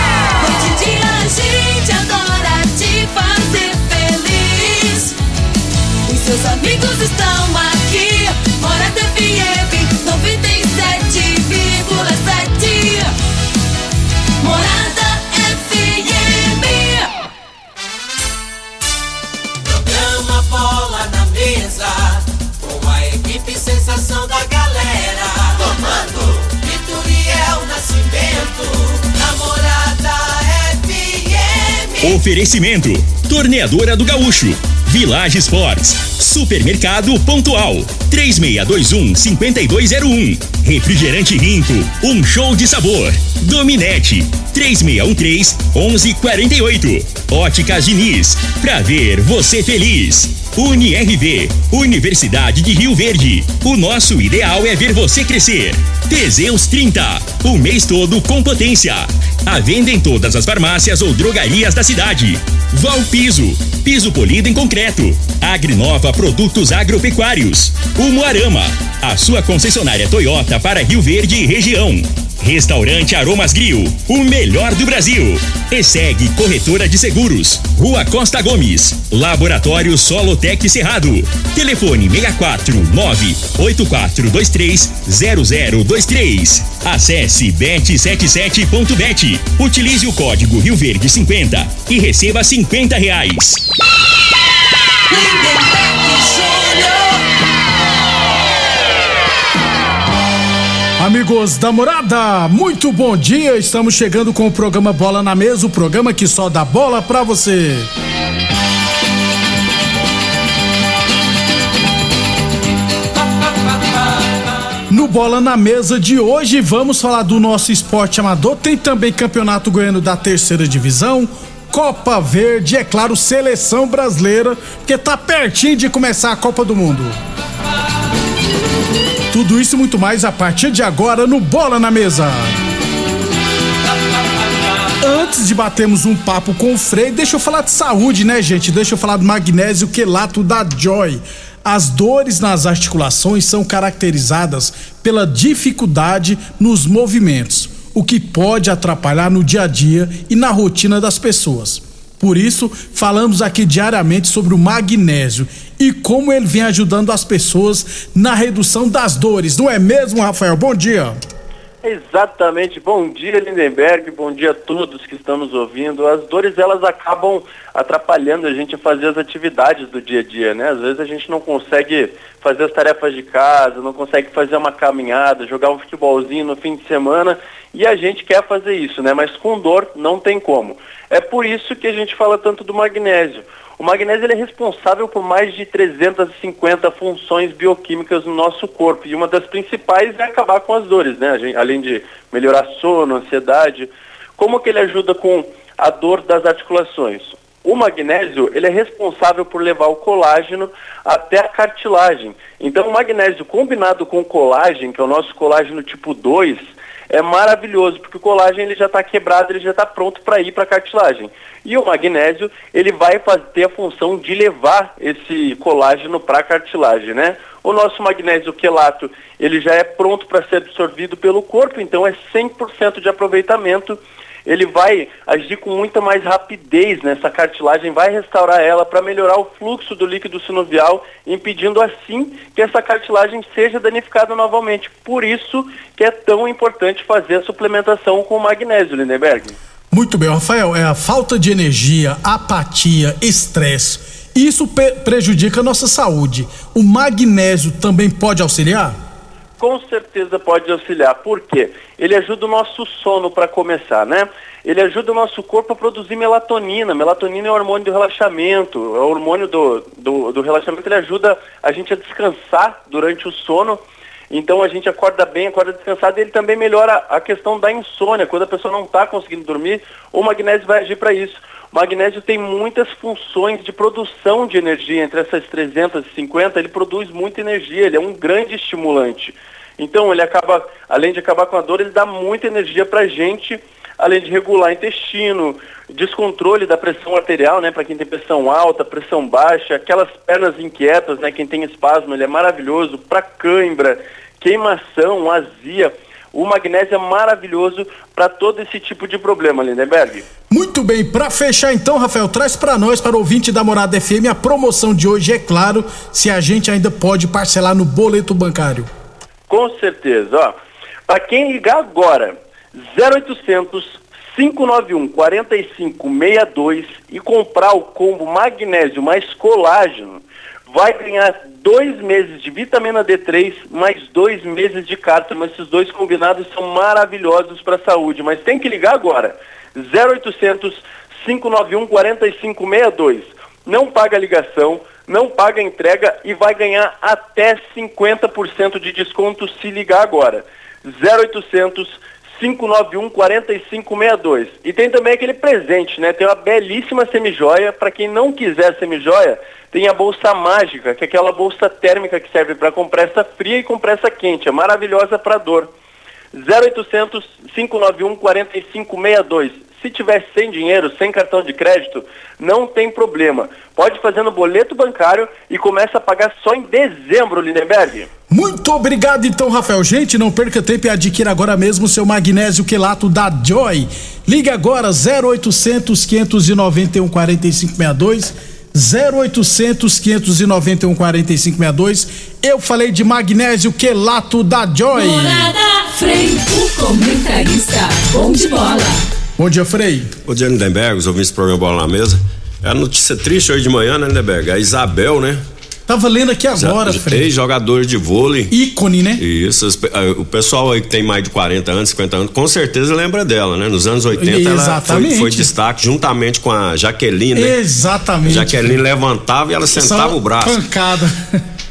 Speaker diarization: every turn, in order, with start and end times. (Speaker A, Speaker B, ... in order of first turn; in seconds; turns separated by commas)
Speaker A: 0.4-5.2, Speaker A: 6.1-13.1, Speaker A: 14.4-17.1, Speaker B: 32.0-93.6, Speaker A: 95.1-97.2, Speaker C: 101.0-107.9, Speaker C: 114.9-127.2, Speaker C: 129.3-132.6, Speaker C: 135.0-161.2, Speaker D: 161.8-239.6, Speaker C: 239.9-249.0, Speaker D: 249.6-300.2, Speaker C: 300.5-308.9, Speaker D: 309.5-310.6, Speaker D: 311.1-312.4, Speaker D: 312.9-355.7, Speaker D: 356.4-368.1, Speaker C: 368.3-385.5, Speaker A: 384.9-389.0, Speaker C: 389.4-390.1, Speaker E: 390.3-395.4, Speaker C: 395.9-397.3, Speaker E: 396.6-398.5, Speaker C: 398.5-399.2, Speaker E: 399.2-407.6, Speaker C: 404.1-405.5, Speaker C: 407.3-408.8, Speaker E: 408.2-410.6, Speaker C: 409.7-411.4